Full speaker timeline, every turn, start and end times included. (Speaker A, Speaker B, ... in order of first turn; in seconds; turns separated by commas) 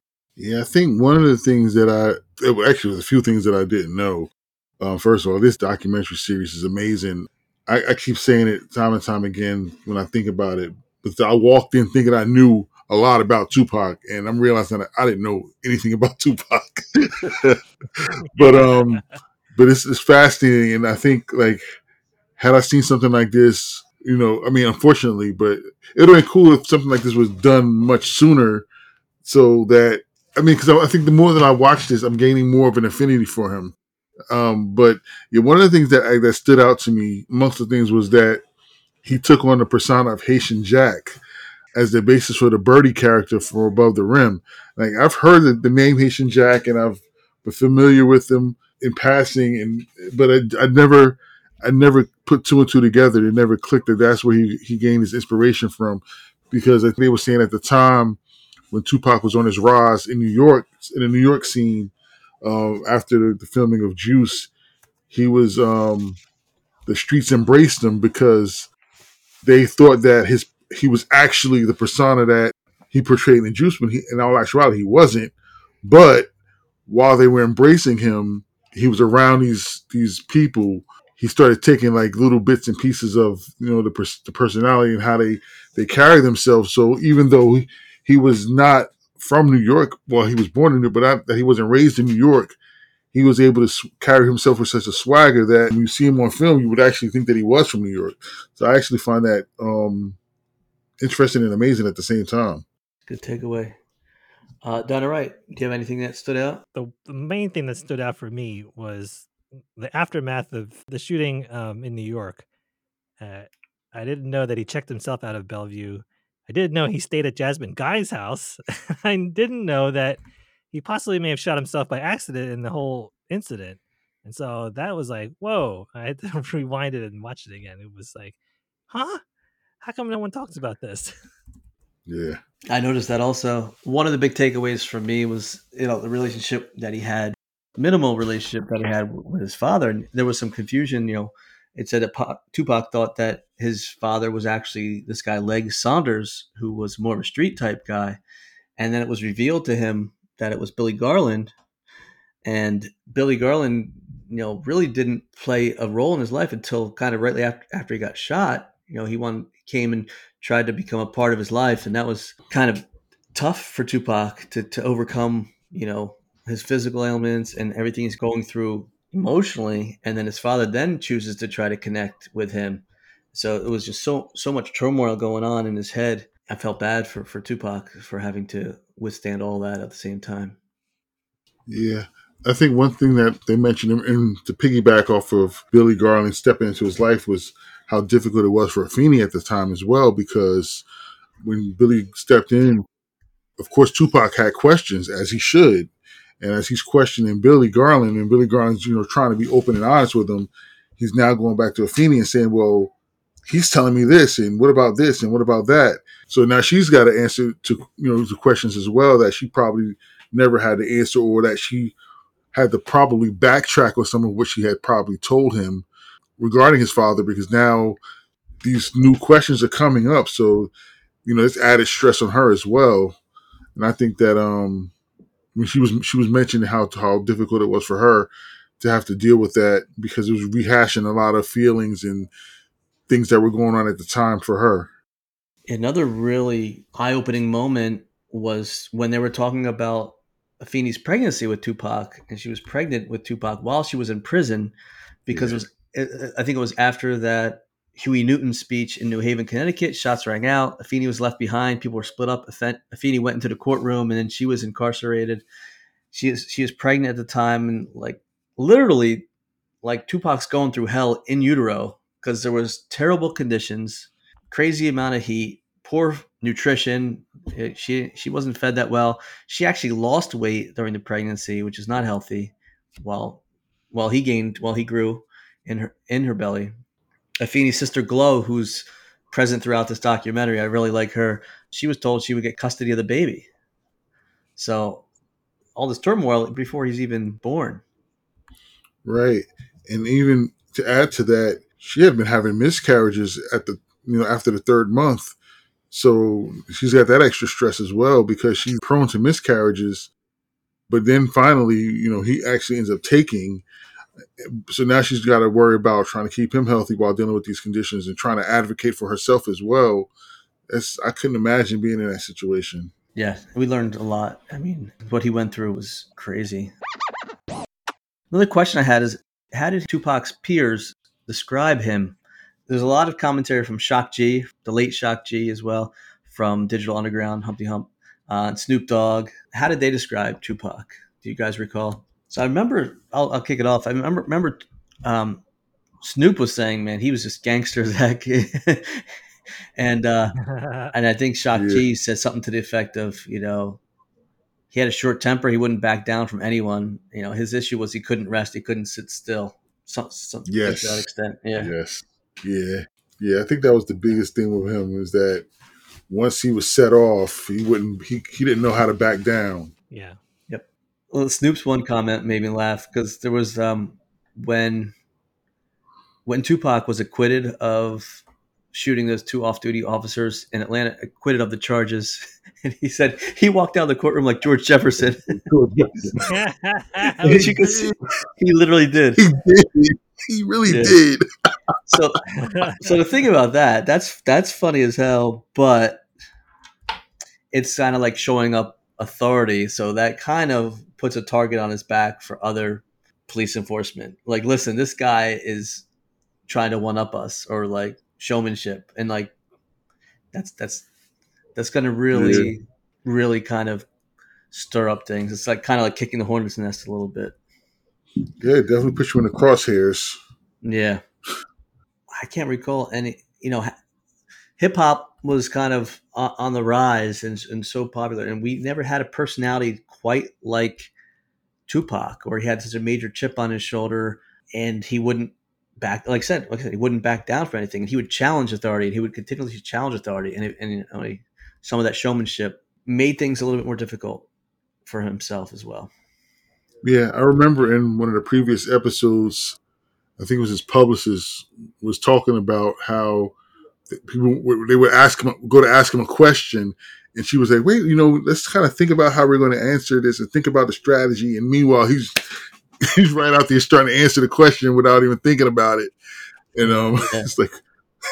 Speaker A: 0.4-19.0, Speaker B: 18.4-19.1, Speaker A: 19.6-21.6, Speaker A: 22.4-28.7, Speaker A: 29.2-33.8, Speaker A: 34.3-38.4, Speaker A: 39.0-41.2, Speaker A: 41.8-58.2, Speaker A: 58.7-64.5, Speaker A: 65.1-66.2, Speaker A: 66.9-68.7, Speaker A: 69.4-76.3, Speaker A: 76.9-92.6, Speaker A: 93.1-100.2, Speaker A: 101.0-102.7, Speaker C: 103.1-103.8, Speaker C: 104.6-106.6, Speaker B: 106.8-112.5, Speaker B: 113.2-120.2, Speaker B: 120.7-128.4, Speaker B: 128.9-129.2, Speaker B: 129.8-131.1, Speaker A: 132.1-132.4, Speaker C: 132.7-148.2, Speaker C: 148.8-151.5, Speaker C: 152.4-180.6, Speaker A: 181.7-190.8, Speaker A: 191.4-192.9, Speaker A: 193.6-202.9, Speaker A: 203.5-212.0, Speaker A: 212.5-215.9, Speaker A: 216.4-218.0, Speaker A: 218.6-220.7, Speaker A: 221.2-223.2, Speaker A: 223.8-224.9, Speaker A: 225.5-232.3, Speaker A: 233.1-234.9, Speaker C: 235.7-244.8, Speaker C: 245.3-255.4, Speaker A: 245.3-245.6, Speaker C: 256.1-259.3, Speaker C: 259.8-276.7, Speaker C: 277.4-283.5, Speaker C: 284.6-285.1, Speaker C: 285.8-287.8, Speaker A: 289.1-295.4, Speaker A: 295.9-300.1, Speaker A: 300.9-303.6, Speaker A: 304.4-310.1, Speaker A: 310.7-312.9, Speaker C: 313.2-316.7, Speaker C: 318.3-335.4, Speaker C: 336.0-339.1, Speaker C: 339.8-340.4, Speaker B: 340.4-340.9, Speaker C: 340.9-343.8, Speaker A: 341.5-341.9, Speaker C: 344.7-351.7, Speaker A: 350.5-351.1, Speaker A: 351.6-355.5, Speaker A: 356.1-359.7, Speaker B: 359.9-360.2, Speaker C: 360.5-364.9, Speaker C: 366.3-375.5, Speaker A: 375.4-376.2, Speaker B: 376.2-377.9, Speaker A: 377.2-377.9, Speaker C: 377.2-379.2, Speaker A: 379.2-381.2, Speaker C: 380.7-381.0, Speaker C: 381.9-382.2, Speaker B: 382.4-382.9, Speaker C: 382.8-386.1, Speaker C: 387.5-395.9, Speaker C: 396.5-399.3, Speaker C: 400.3-400.9, Speaker C: 401.6-403.9, Speaker A: 402.1-402.5, Speaker C: 404.5-407.4, Speaker A: 408.4-410.2, Speaker C: 410.6-411.0, Speaker C: 412.1-413.7, Speaker C: 414.6-420.9, Speaker C: 421.7-434.3, Speaker C: 434.9-435.9, Speaker A: 436.8-439.6, Speaker A: 440.2-443.3, Speaker A: 443.9-455.9, Speaker A: 456.6-457.6, Speaker C: 456.6-457.3